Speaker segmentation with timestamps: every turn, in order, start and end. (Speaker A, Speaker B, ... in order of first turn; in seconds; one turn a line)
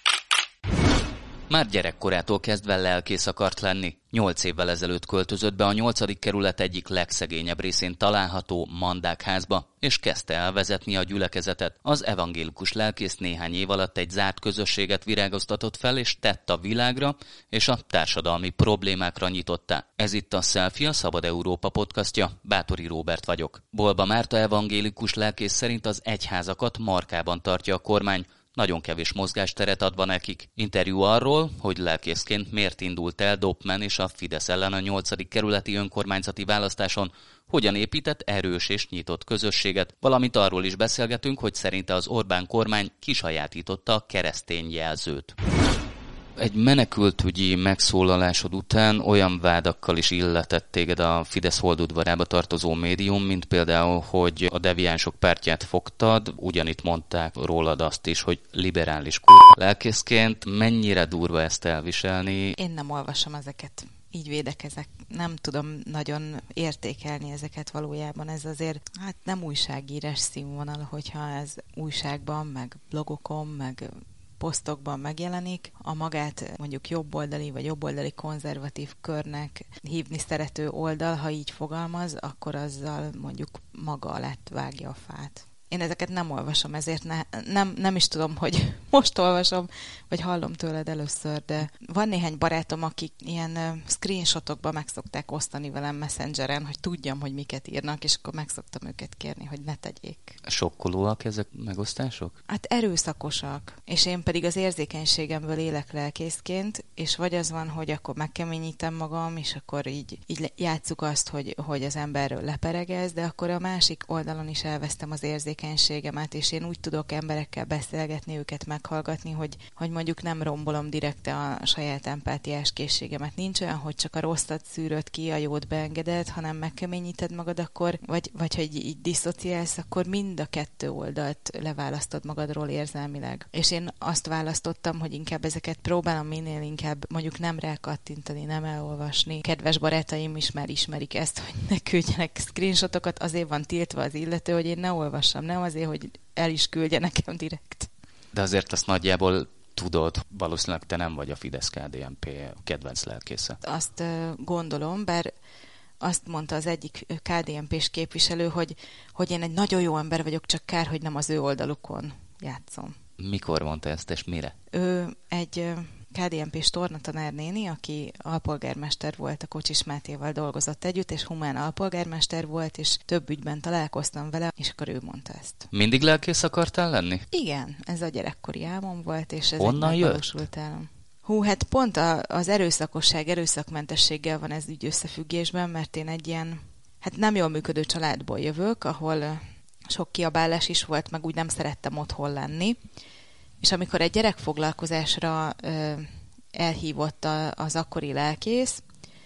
Speaker A: 1.5-45.4
Speaker A: 46.4-62.5
Speaker B: 62.6-100.4
Speaker A: 100.4-102.3
Speaker B: 102.5-147.9
Speaker A: 148.3-153.6
Speaker B: 153.6-155.3
Speaker B: 156.0-162.9
Speaker A: 163.2-164.5
Speaker B: 164.7-175.7
Speaker A: 175.7-177.2
Speaker B: 177.3-192.8
Speaker A: 179.6-180.3
Speaker B: 193.6-198.8